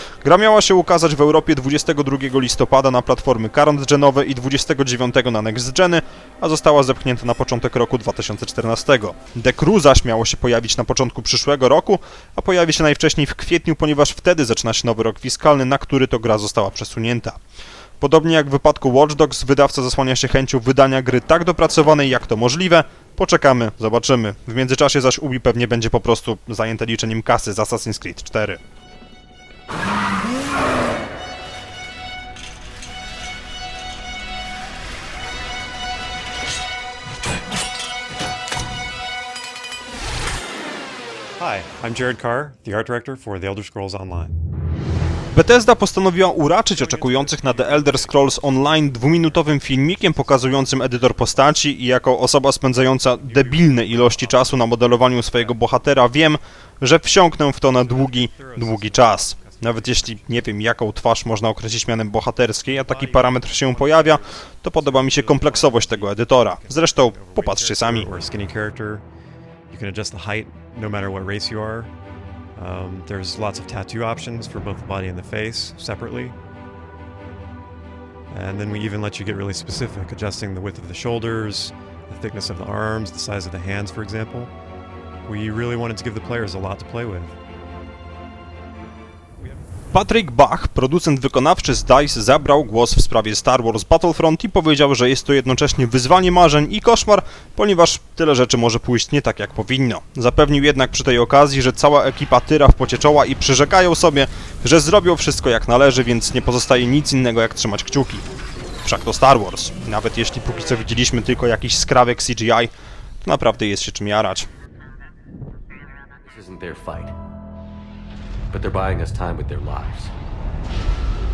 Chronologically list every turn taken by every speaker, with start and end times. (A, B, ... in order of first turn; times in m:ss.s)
0:00.2-0:17.4 A
0:18.0-0:28.6 A
0:41.4-0:44.3 B
0:45.3-1:08.1 A
0:46.7-0:51.5 B
0:53.2-0:55.6 B
0:57.8-1:00.6 B
1:02.7-1:09.0 B
1:09.7-1:11.9 B
1:12.6-1:16.4 B
1:18.3-1:24.5 B
1:25.2-1:27.3 B
1:29.9-1:48.2 A
1:48.8-1:52.7 A
1:53.2-1:54.5 A
1:56.3-1:57.1 C
1:58.5-2:00.1 C